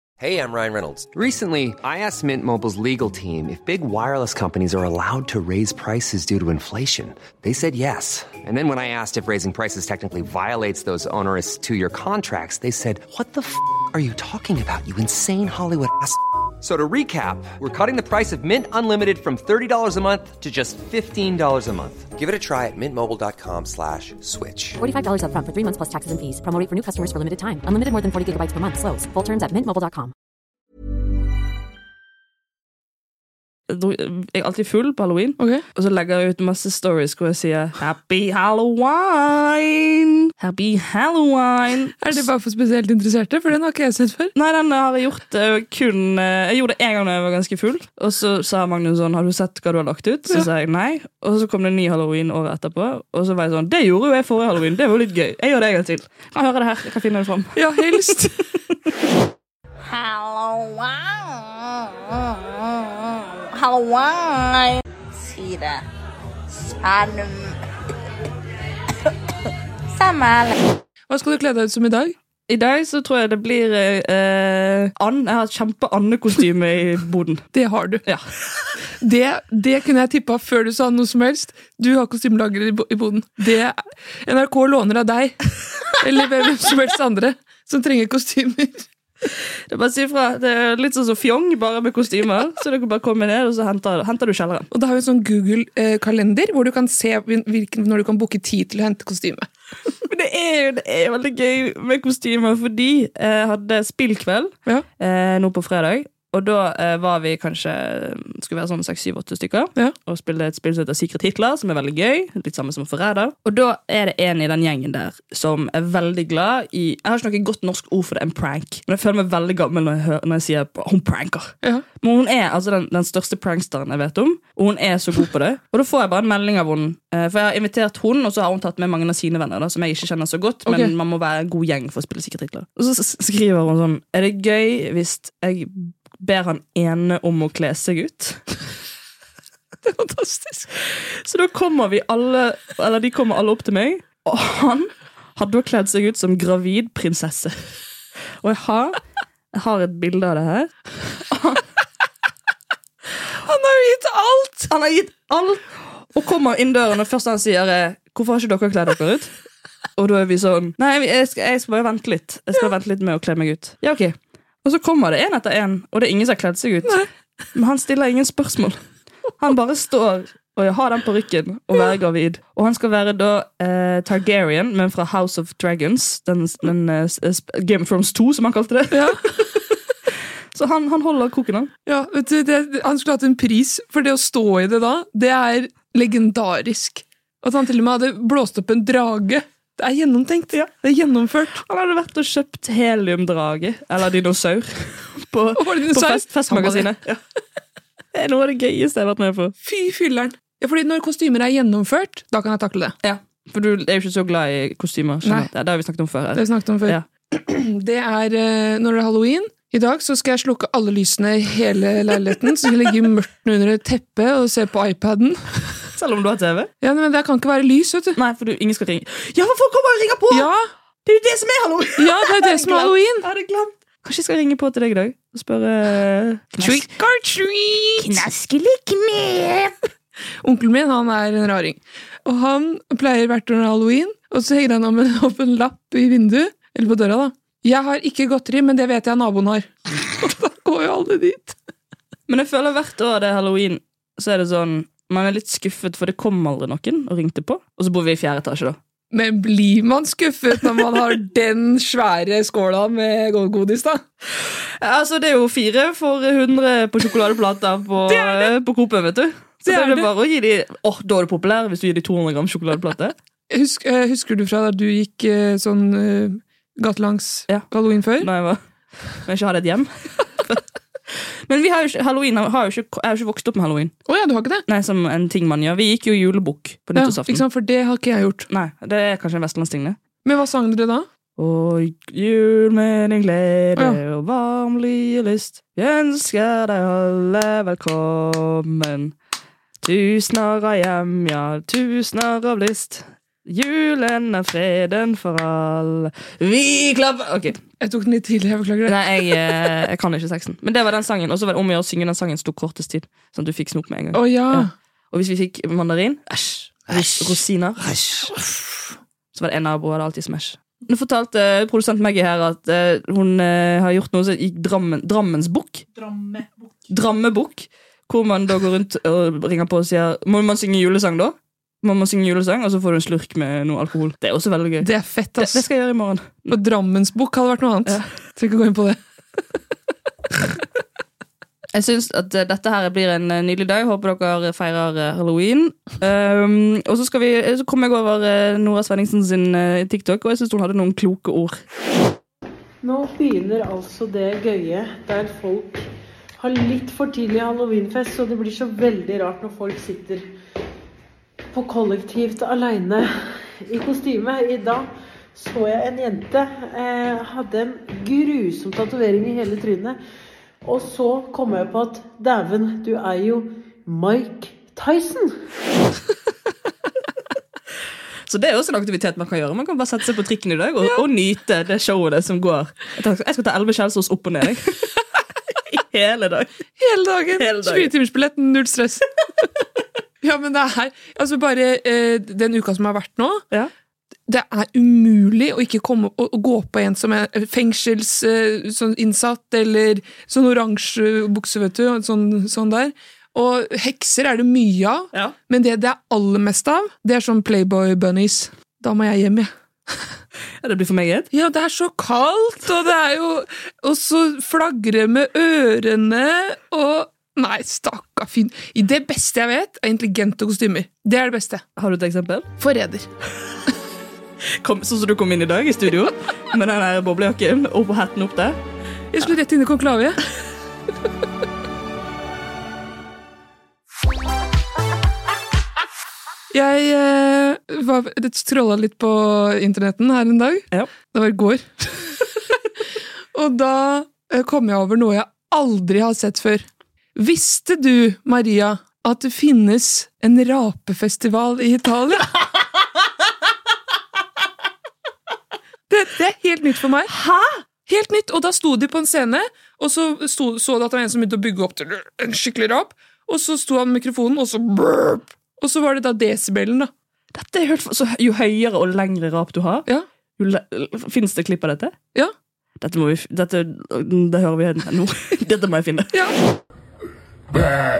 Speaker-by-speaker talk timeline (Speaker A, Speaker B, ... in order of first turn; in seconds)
Speaker A: 0.2-24.8
Speaker B: 24.8-30.1
Speaker C: 33.7-42.2, 44.3-57.6, 72.5-77.5, 89.7-94.7, 100.1-138.4, 141.2-147.5, 148.4-149.0, 149.5-151.6, 154.7-159.3, 160.0-167.0, 167.5-168.8, 169.4-179.2, 180.5-181.7, 191.6-197.2, 198.1-199.5, 203.0-207.1, 215.9-216.7, 218.2-220.5, 221.0-226.9, 228.0-229.7, 242.3-248.8, 254.8-263.1, 267.5-268.6, 269.1-273.9, 274.6-277.4, 278.5-280.0, 281.4-289.1, 289.8-297.6, 298.9-308.4, 309.3-315.8, 316.9-326.5, 331.7-341.6, 368.3-374.8, 375.7-376.5, 377.4-377.9, 400.6-401.3, 411.8-412.5, 414.6-418.6, 447.1-447.6, 457.3-459.9, 460.4-461.9, 462.8-466.1
Speaker D: 35.4-35.6, 42.0-44.3, 57.5-58.4, 71.1-72.1, 77.5-78.0, 79.0-88.8, 94.7-99.5, 130.7-130.9, 139.8-140.7, 153.4-154.7, 178.9-179.2, 181.8-191.6, 195.6-196.9, 199.6-202.9, 205.2-205.5, 206.3-215.6, 216.8-218.2, 220.3-220.7, 222.0-223.3, 226.6-228.2, 230.4-241.6, 249.1-254.0, 258.1-258.5, 259.6-260.1, 263.5-268.3, 274.1-274.6, 276.9-278.5, 280.2-281.1, 297.8-299.2, 304.1-304.7, 324.8-325.6, 326.5-329.0, 376.8-379.1, 380.2-383.4, 384.3-399.5, 401.3-411.6, 412.6-413.1, 419.1-420.2, 426.5-432.2, 433.3-436.6, 437.1-442.4, 445.9-447.1, 447.9-456.9
Speaker E: 59.9-65.8, 66.5-67.5, 69.9-70.6
Speaker F: 342.8-350.3, 351.5-353.1, 353.6-360.0, 360.6-365.5